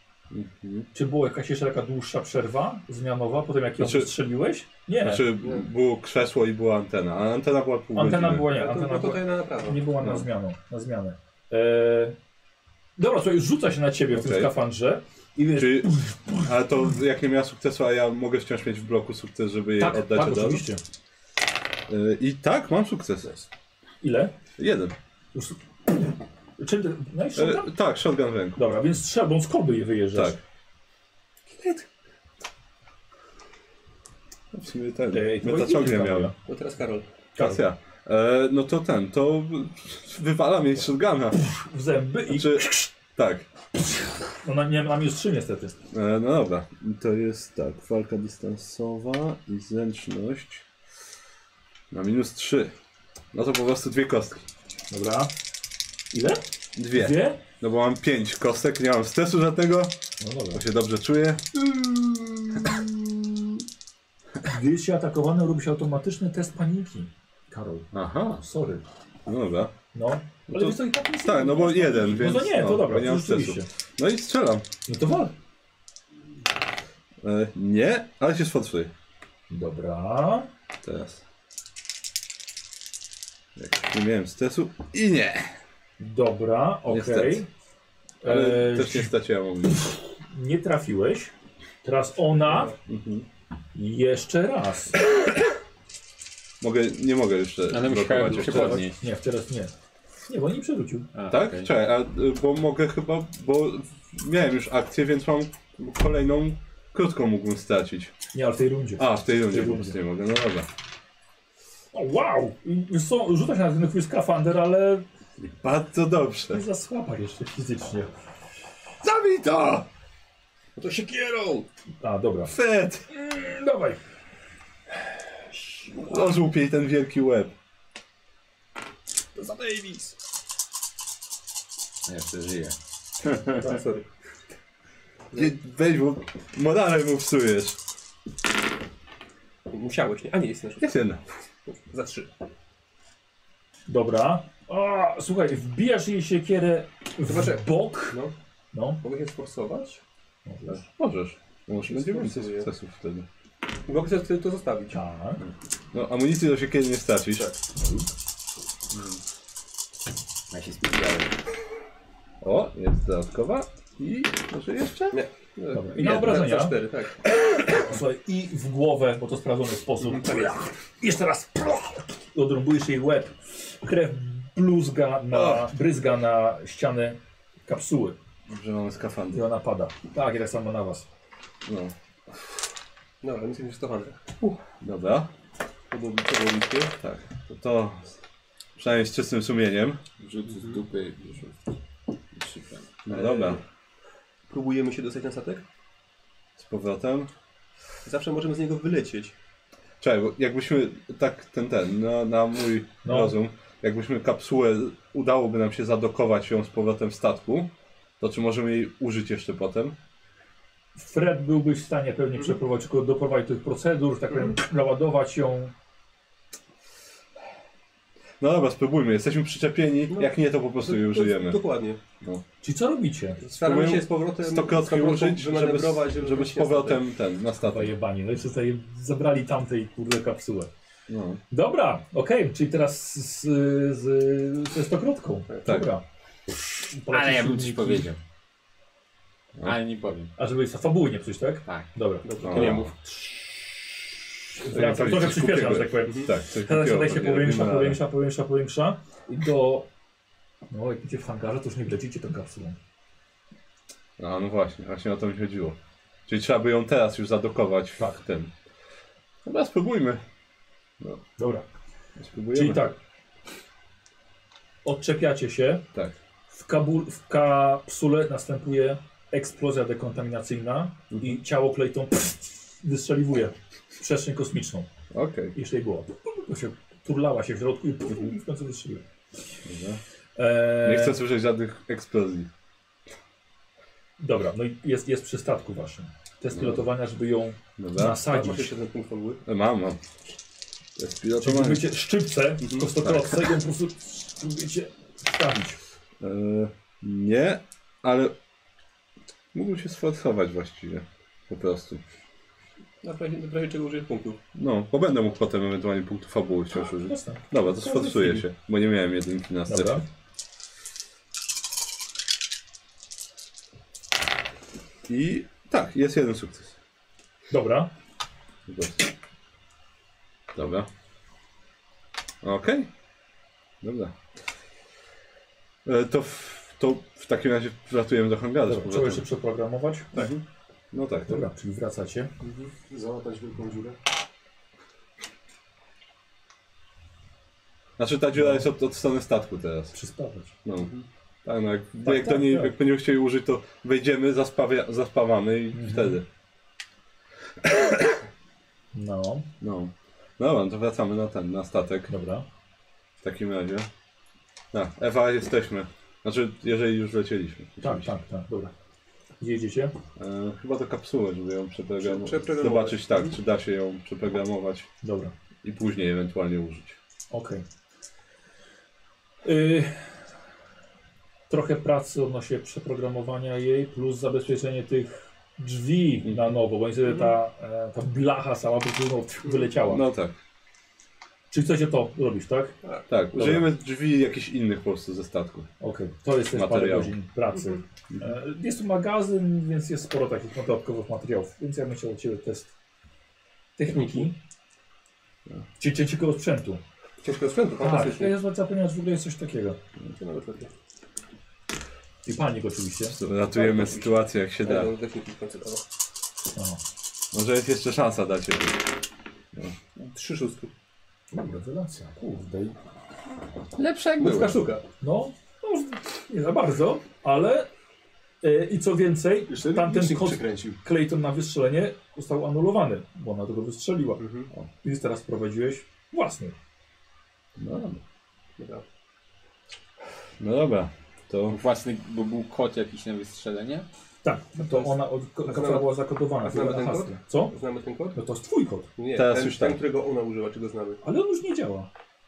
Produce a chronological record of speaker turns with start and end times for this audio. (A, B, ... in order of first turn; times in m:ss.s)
0:00.3-0:00.9 A
0:00.9-0:05.2 B
0:03.8-0:04.1 A
0:05.0-0:08.5 A
0:08.0-0:12.2 B
0:08.5-0:09.9 C
0:13.0-0:16.5 B
0:14.1-0:14.5 A
0:15.6-0:20.6 A
0:19.8-0:20.8 B
0:21.9-0:23.4 A
0:24.0-0:24.3 B
0:24.6-0:25.0 A
0:25.3-0:26.1 B
0:26.6-0:27.7 B
0:27.4-0:28.6 A
0:28.6-0:30.4 B
0:30.1-0:30.4 A
0:31.6-0:31.8 C
0:34.5-0:36.3 A
0:35.1-0:36.4 B
0:36.5-0:37.1 C
0:37.4-0:41.4 A
0:37.4-0:37.6 B
0:41.4-0:42.8 B
0:42.3-0:43.5 A
0:44.4-0:45.8 B
0:45.9-0:50.6 A
0:51.9-0:52.7 A
0:53.3-0:54.4 A
0:54.9-0:55.3 B
0:56.1-0:56.4 B
0:56.8-1:00.0 A
0:56.9-0:57.4 B
1:00.2-1:00.6 B
1:00.5-1:01.7 A
1:02.6-1:02.9 A
1:04.4-1:08.8 B
1:07.9-1:08.4 A
1:09.3-1:09.7 A
1:09.9-1:13.7 B
1:10.5-1:14.7 A
1:14.9-1:15.3 B
1:17.2-1:18.9 A
1:19.5-1:20.5 B
1:20.8-1:21.2 A
1:23.6-1:25.5 A
1:26.0-1:27.5 B
1:26.9-1:27.4 A
1:28.2-1:29.1 B
1:28.2-1:29.8 A
1:30.2-1:31.3 B
1:31.8-1:32.7 B
1:32.9-1:33.3 A
1:33.8-1:35.0 B
1:36.6-1:38.8 A
1:37.7-1:39.0 D
1:38.3-1:39.7 B
1:40.3-1:41.1 B
1:41.1-1:41.7 D
1:41.3-1:48.1 A
1:48.3-1:50.0 B
1:49.0-1:50.7 A
1:51.9-1:55.0 B
1:55.4-1:56.6 A
1:56.5-1:58.1 B
1:59.0-1:59.9 A
2:00.8-2:01.7 C
2:02.0-2:02.5 B
2:02.5-2:03.0 A
2:03.1-2:04.0 B
2:05.6-2:06.1 B
2:06.0-2:07.5 A
2:09.4-2:10.1 C
2:12.1-2:12.8 D
2:13.3-2:13.6 D
2:13.5-2:14.1 C
2:15.3-2:17.8 A
2:19.7-2:21.0 C
2:20.8-2:21.2 A
2:21.7-2:22.3 C
2:23.9-2:28.2 B
2:27.3-2:28.3 C
2:28.7-2:29.0 B
2:29.0-2:30.0 C
2:30.5-2:30.8 B
2:30.7-2:33.3 A
2:31.8-2:32.7 C
2:33.9-2:35.0 C
2:34.9-2:35.4 B
2:35.4-2:37.5 A
2:37.8-2:38.1 B
2:38.9-2:39.2 A
2:40.5-2:41.4 D
2:42.4-2:45.2 A
2:45.1-2:47.2 C
2:45.7-2:46.8 B
2:47.4-2:58.2 B
2:50.0-2:50.7 C
2:55.3-2:55.6 A
2:58.5-2:59.4 A
2:59.3-3:01.1 B
3:01.7-3:01.9 A
3:03.2-3:04.5 C
3:04.8-3:05.3 A
3:05.9-3:06.9 C
3:07.0-3:08.1 A
3:08.8-3:10.0 A
3:10.2-3:11.6 D
3:10.5-3:10.8 C
3:12.4-3:12.9 D
3:13.0-3:13.6 A
3:13.1-3:13.6 C
3:14.5-3:15.6 C
3:16.6-3:17.3 A
3:18.0-3:19.3 C
3:20.0-3:30.0 A
3:23.0-3:23.4 B
3:31.0-3:35.7 B
3:38.4-3:41.6 A
3:40.1-3:42.0 C
3:42.6-3:43.4 B
3:43.4-3:47.0 C
3:43.6-3:47.9 A
3:47.6-3:50.7 B
3:51.1-3:51.4 A
3:51.5-3:56.0 B
3:56.9-3:58.1 B
3:57.1-3:58.2 D
3:59.6-4:00.3 D
4:00.4-4:03.4 B
4:02.2-4:02.8 C
4:02.4-4:03.0 D
4:02.4-4:02.9 A
4:04.5-4:09.9 B
4:04.7-4:08.0 A
4:10.7-4:12.8 B
4:14.2-4:18.5 A
4:19.4-4:20.2 A
4:21.4-4:21.6 B
4:22.2-4:22.9 A
4:22.5-4:23.0 B
4:24.8-4:25.8 B
4:26.5-4:34.9 B
4:35.1-4:35.6 A
4:35.5-4:39.0 B
4:39.7-4:40.0 A
4:40.4-4:41.2 B
4:40.8-4:42.5 A
4:44.2-4:48.7 B
4:46.5-4:46.8 A
4:47.8-4:48.2 A
4:48.2-4:49.4 C
4:49.4-4:50.0 A
4:51.0-4:51.9 A
4:51.4-4:55.8 B
4:52.6-4:52.9 C
4:53.0-4:53.3 A
4:56.2-4:58.3 A
4:59.5-5:02.0 A
5:03.0-5:04.4 C
5:04.6-5:10.1 A
5:06.8-5:08.4 B
5:07.8-5:08.4 C
5:09.7-5:10.0 B
5:15.1-5:16.8 A
5:17.5-5:17.9 B
5:18.7-5:19.1 A
5:20.5-5:20.9 A
5:22.4-5:22.9 A
5:23.8-5:24.1 A
5:25.8-5:29.2 A
5:28.7-5:30.3 B
5:30.1-5:31.5 A
5:31.3-5:32.3 B
5:32.4-5:32.7 C
5:32.9-5:34.0 E
5:38.0-5:39.9 A
5:38.4-5:38.7 B
5:39.9-5:40.5 B
5:40.6-5:40.9 A
5:40.8-5:41.0 C
5:41.4-5:46.2 A
5:42.0-5:42.8 B
5:45.7-5:46.2 B
5:48.9-5:49.5 B
5:49.6-5:52.1 A
5:52.1-5:52.5 B
5:53.2-5:53.9 A
5:54.7-5:58.1 A
5:57.8-5:58.7 B
5:59.4-5:59.9 B
6:00.2-6:04.9 A
6:02.0-6:03.4 C
6:05.0-6:05.3 B
6:05.6-6:07.0 A
6:07.3-6:07.6 B
6:09.4-6:10.1 B
6:11.5-6:20.0 B
6:17.1-6:17.3 C
6:19.8-6:20.4 A
6:21.5-6:22.8 B
6:23.1-6:25.7 A
6:23.4-6:23.7 B
6:25.8-6:32.7 B
6:26.5-6:27.1 A
6:33.8-6:34.3 C
6:33.8-6:34.4 B
6:35.8-6:36.8 B
6:37.2-6:38.4 C
6:37.8-6:39.8 B
6:40.2-6:40.7 C
6:42.3-6:43.2 B
6:43.1-6:44.9 A
6:43.5-6:45.8 C
6:46.6-6:46.8 B
6:47.3-6:48.9 A
6:50.0-6:50.7 C
6:51.3-6:52.8 B
6:53.8-6:54.6 D
6:54.2-6:54.8 C
6:55.0-6:57.7 B
6:58.4-7:04.2 B
6:59.5-7:00.8 E
7:04.2-7:04.5 C
7:04.8-7:06.6 B
7:07.6-7:08.0 A
7:08.6-7:08.8 C
7:10.4-7:11.6 A
7:11.5-7:13.9 D
7:14.2-7:17.6 B
7:14.6-7:15.0 C
7:15.5-7:18.2 C
7:18.2-7:18.9 B
7:19.0-7:21.0 C
7:19.2-7:19.8 A
7:21.0-7:21.9 B